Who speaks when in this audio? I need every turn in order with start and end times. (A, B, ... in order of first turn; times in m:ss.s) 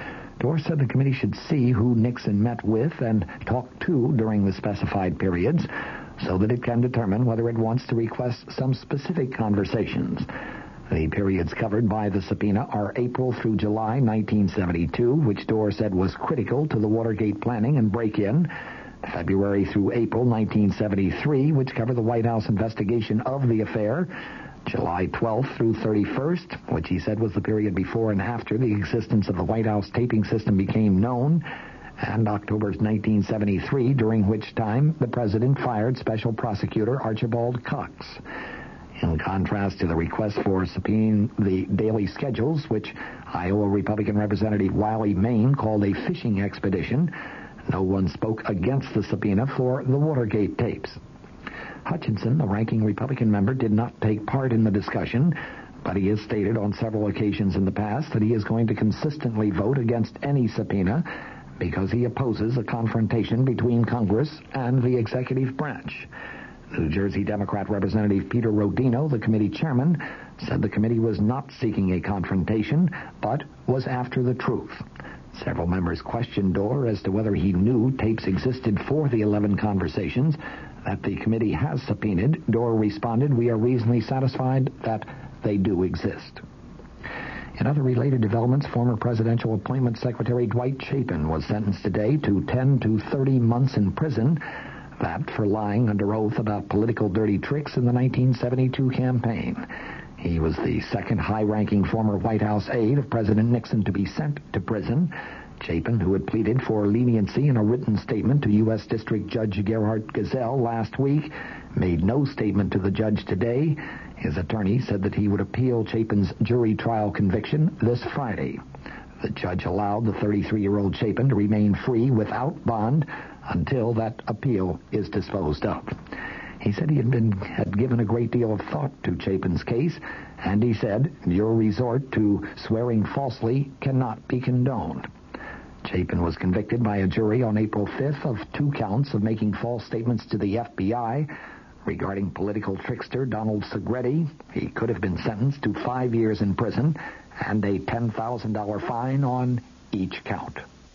0:00.4-0:10.3 A
0:10.9-0:18.5 A
0:19.0-0:24.1 A
0:24.6-0:31.4 A
0:32.0-0:38.2 A
0:39.0-0:47.1 A
0:47.7-0:51.0 A
0:51.8-1:01.1 A
1:01.6-1:06.1 A
1:06.7-1:26.4 A
1:27.6-1:34.4 A
1:35.0-1:39.7 A
1:40.2-1:58.6 A
1:59.2-2:06.0 A
2:06.6-2:15.1 A
2:15.8-2:21.3 A
2:21.8-2:30.6 A